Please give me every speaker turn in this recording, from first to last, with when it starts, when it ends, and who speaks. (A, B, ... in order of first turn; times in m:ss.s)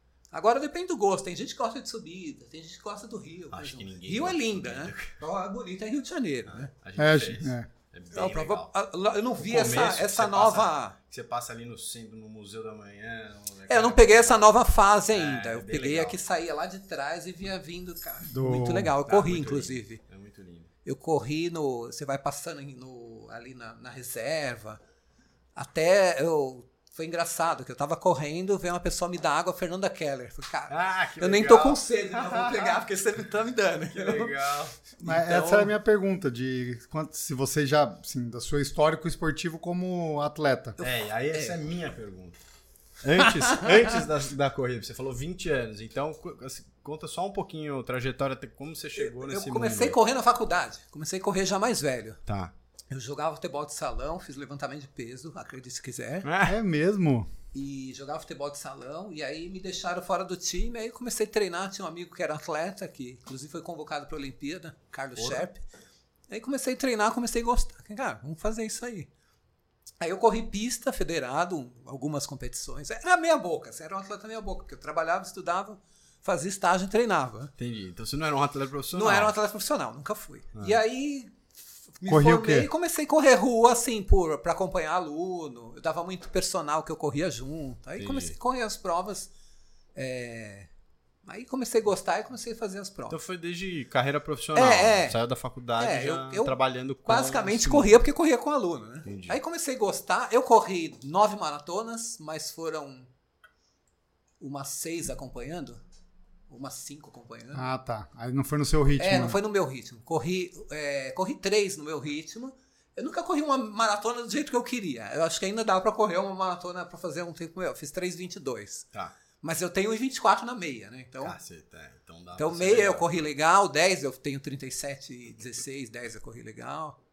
0:00.3-0:06.7 A
0:03.5-0:05.2 B
0:06.5-0:08.7 B
0:07.0-0:07.7 C
0:08.1-0:11.0 A
0:09.4-0:14.5 B
0:13.7-0:20.0 A
0:15.1-0:16.2 B
0:18.3-0:19.0 C
0:19.0-0:20.7 B
0:20.8-0:24.8 A
0:25.6-0:34.4 A
0:30.7-0:32.8 B
0:33.9-0:34.8 B
0:35.0-0:35.7 A
0:35.0-0:40.8 C
0:40.8-0:41.6 A
0:40.8-0:42.4 B
0:43.0-0:50.0 B
0:43.2-0:44.0 A
0:49.0-0:52.2 A
0:52.3-0:52.5 B
0:52.9-0:56.3 A
0:56.2-0:56.6 B
0:56.4-0:57.3 C
0:57.5-1:05.6 A
1:05.2-1:05.5 B
1:06.3-1:09.1 A
1:10.0-1:17.5 A
1:17.6-1:19.3 B
1:18.9-1:21.4 A
1:22.0-1:29.3 A
1:22.1-1:22.7 C
1:28.0-1:28.3 B
1:29.9-1:30.7 A
1:31.2-1:33.2 A
1:33.1-1:38.0 B
1:34.5-1:35.2 A
1:35.8-1:43.1 A
1:39.0-1:39.4 B
1:44.4-1:45.8 A
1:46.5-1:47.6 A
1:47.5-1:49.4 C
1:49.0-1:58.9 A
1:59.4-2:01.4 A
2:01.2-2:03.1 B
2:02.4-2:07.0 A